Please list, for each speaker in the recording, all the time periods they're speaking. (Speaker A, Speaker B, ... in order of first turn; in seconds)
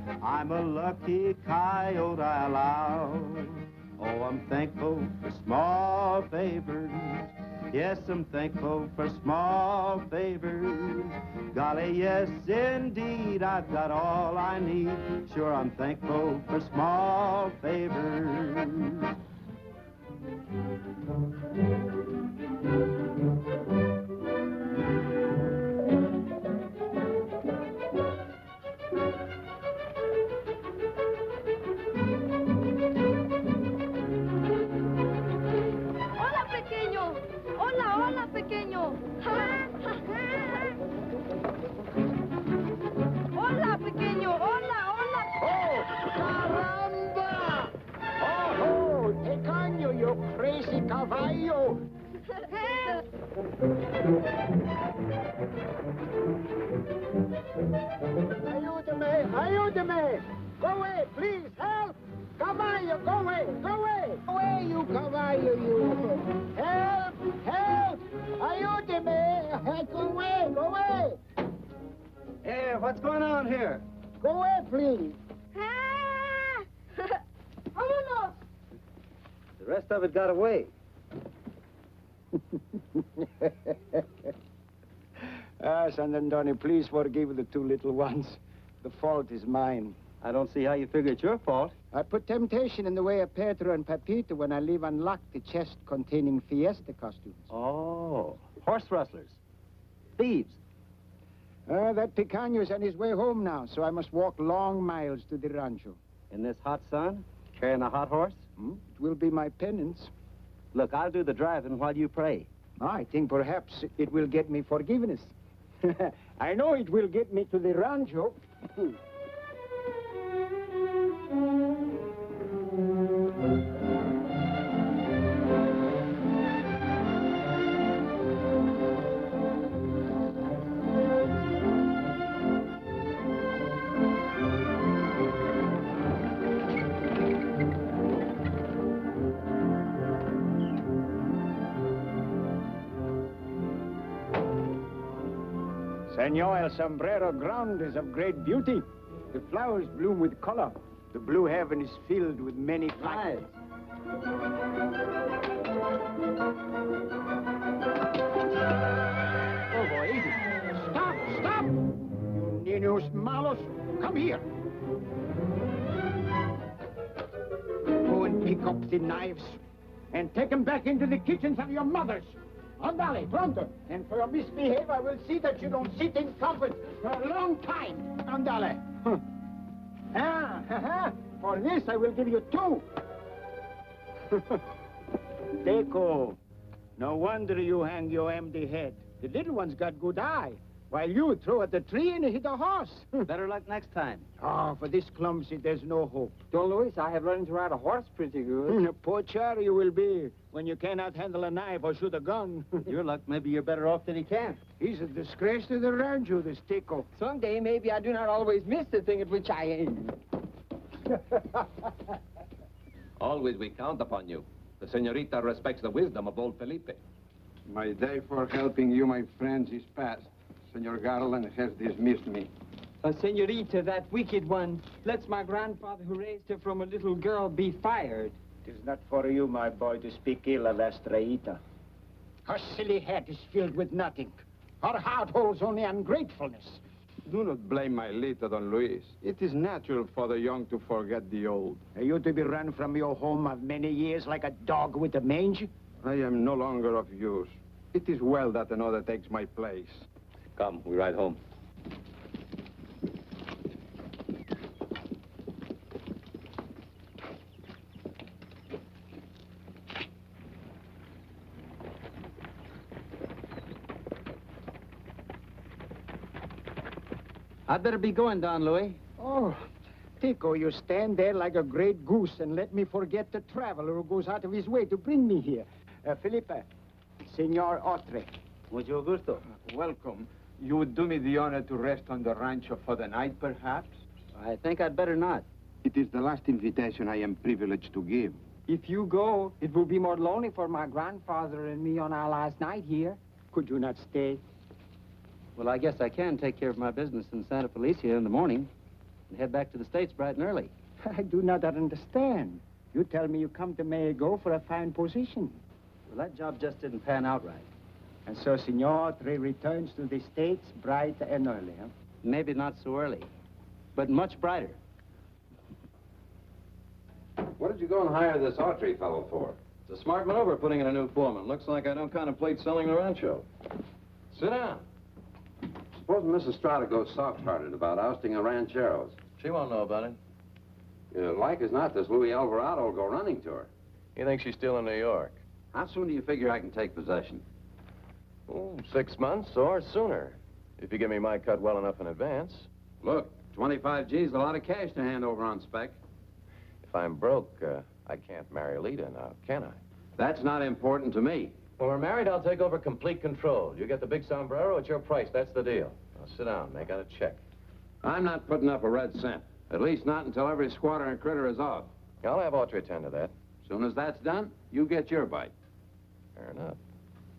Speaker A: 0.2-19.1
Speaker B: 36.2-40.4, 43.4-45.3, 52.6-52.9, 75.7-76.2, 77.8-78.3
Speaker C: 45.4-51.9, 58.4-71.2, 74.2-75.2, 82.3-84.0, 85.6-90.0, 91.9-97.5, 101.7-106.0, 108.6-110.1, 112.8-118.4, 146.1-153.3, 160.7-164.4, 168.0-179.2, 180.1-182.8, 184.3-184.6, 185.6-186.4, 187.0-193.2, 194.4-196.4, 198.7-202.9, 204.8-207.1, 228.6-231.6, 232.4-236.8, 241.9-245.7, 269.2-269.7, 270.2-276.7, 277.2-278.3, 293.5-294.4, 301.0-305.6, 308.2-311.9
Speaker D: 72.4-73.8, 79.6-80.7, 90.2-91.7, 97.5-99.4, 100.2-100.6, 106.3-108.5, 110.7-112.5, 153.0-153.5, 159.7-160.4, 193.2-194.2, 202.8-204.6, 267.7-269.0, 278.7-279.4, 284.3-285.4, 295.6-298.7, 299.3-300.7, 306.1-307.7, 312.2-313.3, 313.9-314.8
Speaker E: 196.5-198.8, 207.1-210.2, 223.0-228.3, 288.6-293.2
Speaker F: 213.2-217.0, 250.6-251.4
Speaker G: 217.7-222.5, 237.2-241.8, 246.0-250.0, 279.6-283.9, 285.8-288.4
Speaker H: 317.6-319.6, 326.0-329.2, 331.1-333.7, 335.7-337.4, 343.0-346.0, 350.2-351.6, 358.0-361.9, 363.6-365.5
Speaker I: 319.9-323.4, 324.3-324.8, 329.4-330.2, 334.1-335.4, 338.5-342.7, 346.8-349.8, 351.6-357.4, 362.2-363.3, 366.4-366.8